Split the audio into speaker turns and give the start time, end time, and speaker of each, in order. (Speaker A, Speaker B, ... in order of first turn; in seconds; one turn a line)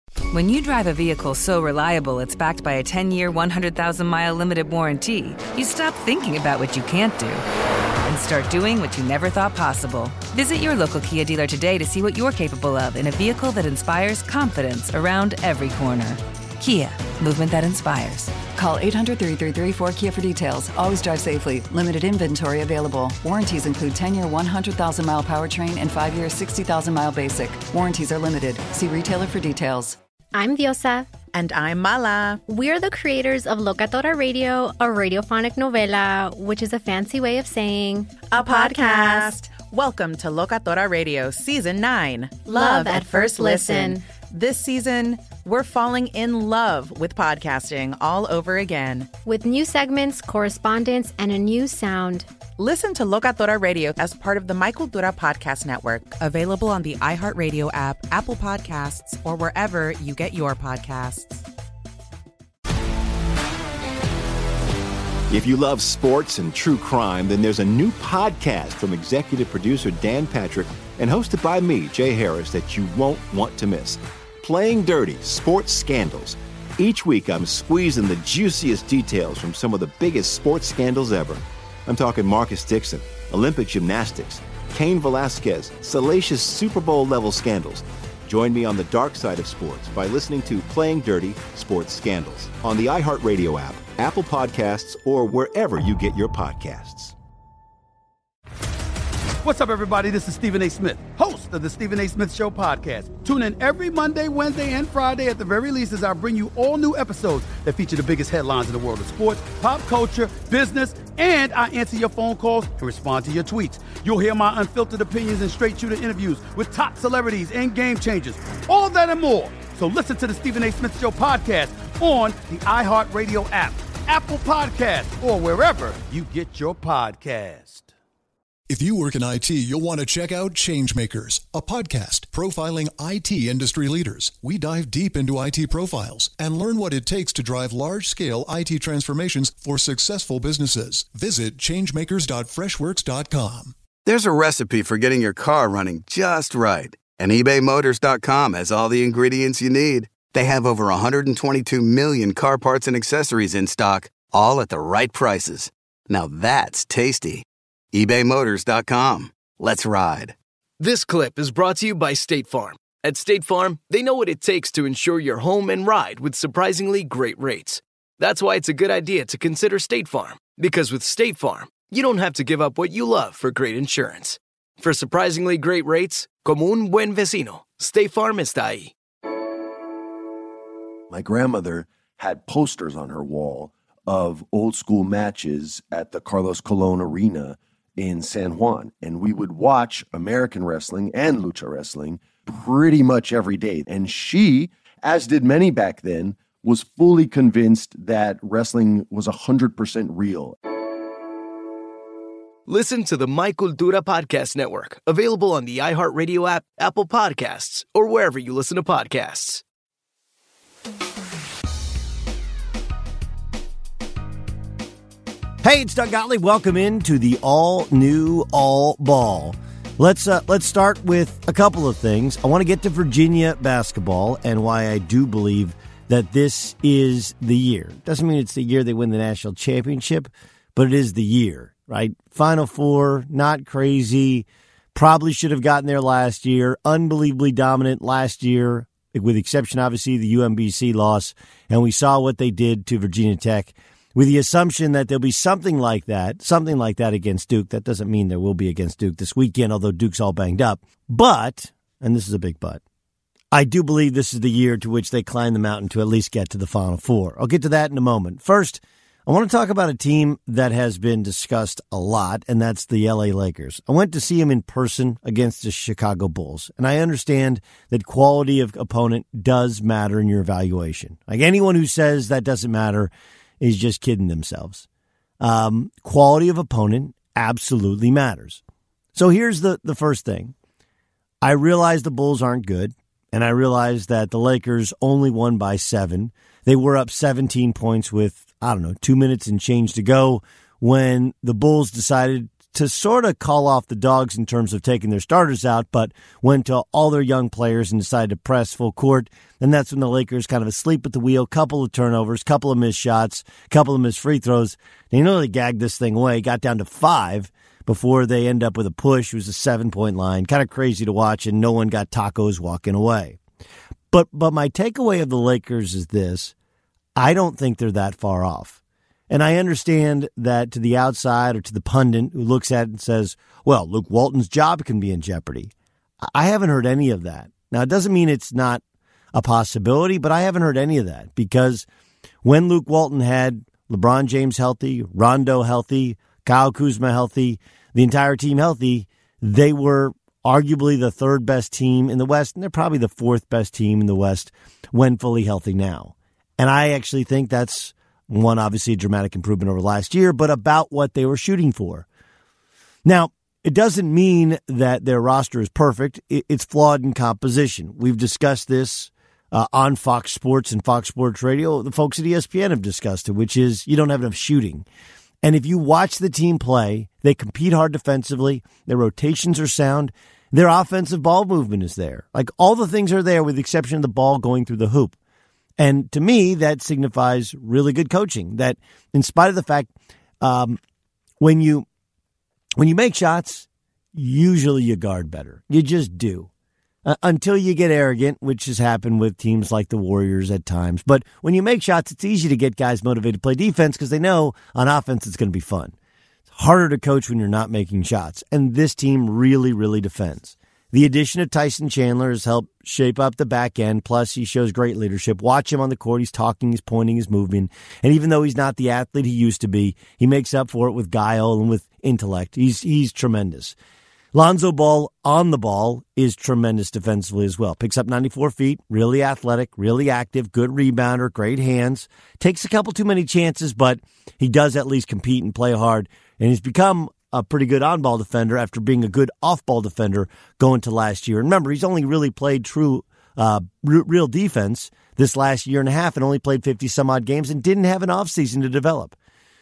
Speaker A: 0.3-7.4
Speaker A: 8.0-18.4
Speaker B: 18.4-30.0
Speaker C: 30.3-31.1
Speaker D: 31.3-32.4
Speaker C: 32.5-39.3
Speaker D: 38.3-49.1
Speaker C: 42.5-44.0
Speaker C: 49.2-52.3
Speaker D: 52.6-61.5
Speaker E: 65.3-97.1
Speaker F: 99.4-127.9
Speaker G: 128.7-143.7
Speaker H: 144.1-160.3
Speaker I: 160.8-178.9
Speaker J: 181.1-200.6
Speaker I: 202.7-209.6
Speaker K: 215.6-252.8
Speaker K: 253.5-274.9
Speaker K: 275.4-278.6
Speaker K: 279.1-280.5
Speaker K: 281.4-313.4
Speaker K: 314.1-316.5
Speaker K: 317.2-318.8
Speaker K: 319.3-325.7
Speaker K: 326.2-328.8
Speaker K: 329.3-331.9
Speaker K: 332.4-352.1
Speaker K: 353.0-364.8
Speaker K: 365.4-375.1
Speaker K: 375.8-380.8
Speaker K: 381.4-381.9
Speaker K: 382.8-386.5
Speaker K: 387.0-395.9
Speaker K: 396.5-413.7
Speaker K: 414.3-439.1